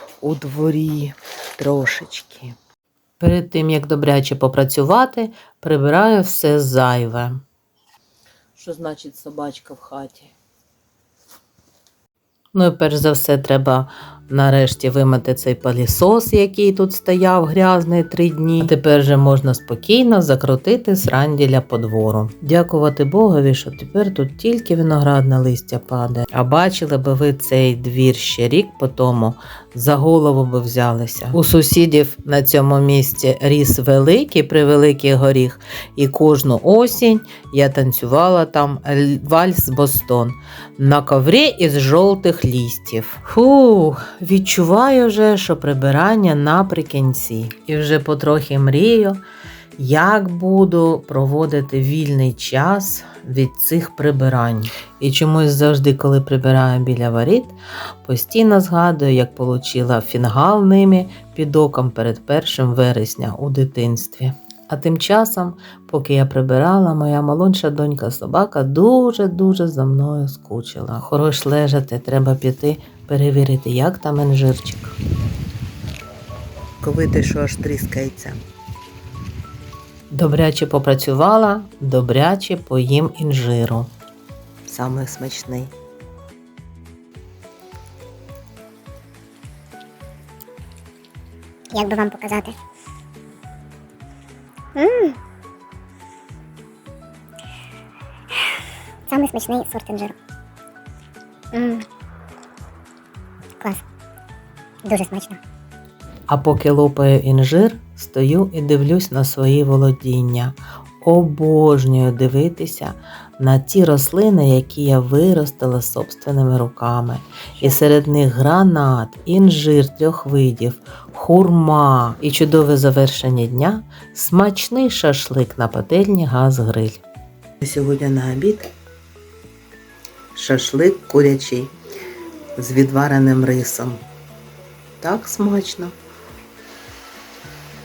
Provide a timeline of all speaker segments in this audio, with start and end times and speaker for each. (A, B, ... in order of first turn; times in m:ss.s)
0:00.2-0:02.5 A
0:03.2-0:07.4 B
0:08.6-0:10.3 B
0:12.5-0:49.2 B
0:49.8-1:15.0 B
1:16.8-1:18.4 A
1:20.1-1:23.9 B
1:24.7-1:25.7 A
1:31.7-1:32.6 C
1:34.8-1:35.2 C
1:39.1-1:40.1 C
1:41.5-1:41.8 C
1:44.9-1:45.4 C
1:46.3-2:07.0 B
2:07.6-2:08.6 A
2:10.4-2:11.3 B
2:10.7-2:11.5 A
2:12.6-2:14.0 A
2:13.0-2:13.3 B
2:15.0-2:15.9 A